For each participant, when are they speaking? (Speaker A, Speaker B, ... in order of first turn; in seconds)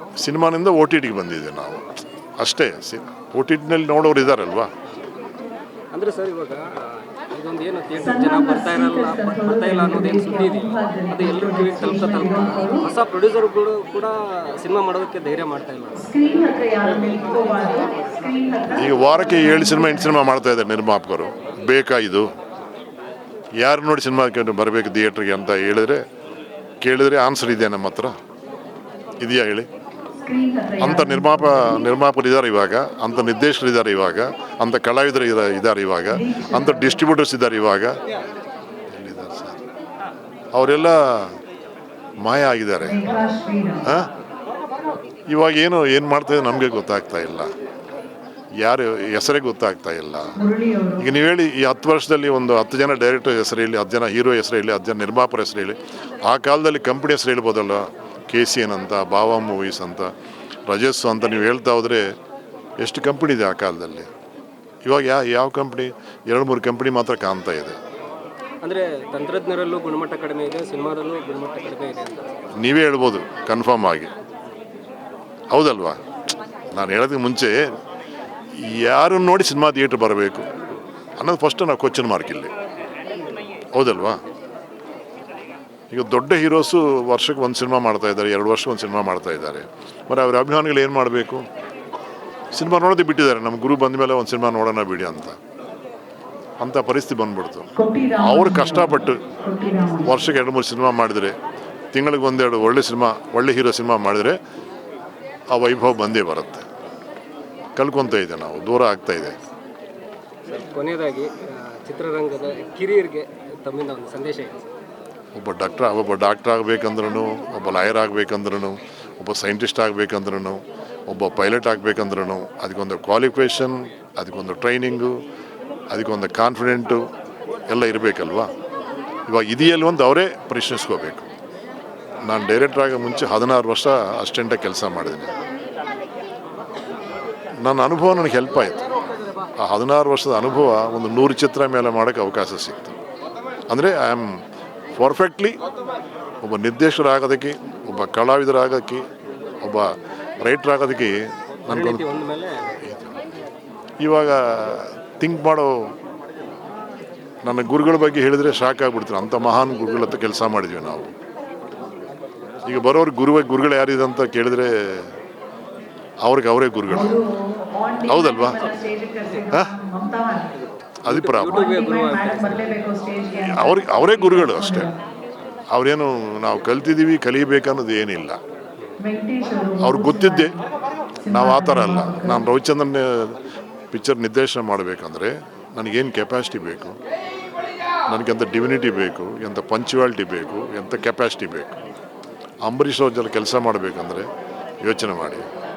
Speaker A: 0.2-4.7, 18.7-22.3, 23.6-26.0, 26.8-28.1, 29.2-29.7, 30.8-38.0, 38.9-39.6, 40.5-41.4, 42.2-43.0, 45.3-47.5, 48.6-50.4, 51.0-60.1, 60.7-62.1, 62.8-64.1, 64.8-67.8, 72.5-74.1, 75.5-76.0, 76.7-77.7, 78.6-80.5, 81.2-82.5, 83.7-84.2, 85.9-91.4, 92.5-95.3, 96.6-99.2, 100.0-101.3, 101.9-104.4, 105.5-106.6, 107.8-109.3, 115.3-125.2, 125.9-127.1, 127.7-128.5, 129.3-131.3, 132.3-135.3, 137.6-138.9, 139.6-142.9, 143.7-144.4, 144.9-145.6, 146.4-149.1, 149.6-152.1, 152.8-153.3, 154.0-155.9, 157.4-161.1, 162.7-165.1, 166.2-167.2, 168.1-168.6, 171.0-171.6, 173.4-174.9, 175.7-178.4, 179.8-180.5, 181.3-183.4, 183.9-187.0, 188.1-191.8, 192.6-194.3, 194.8-195.4
Speaker B: 5.9-16.1, 68.6-72.5, 110.5-114.7, 151.7-152.8, 171.1-172.6
Speaker C: 8.0-12.9, 15.9-20.2, 30.2-31.9, 36.1-37.0, 42.8-44.0, 50.4-51.1, 97.8-100.2, 166.9-170.5, 171.5-174.9, 179.0-180.6, 181.2-182.5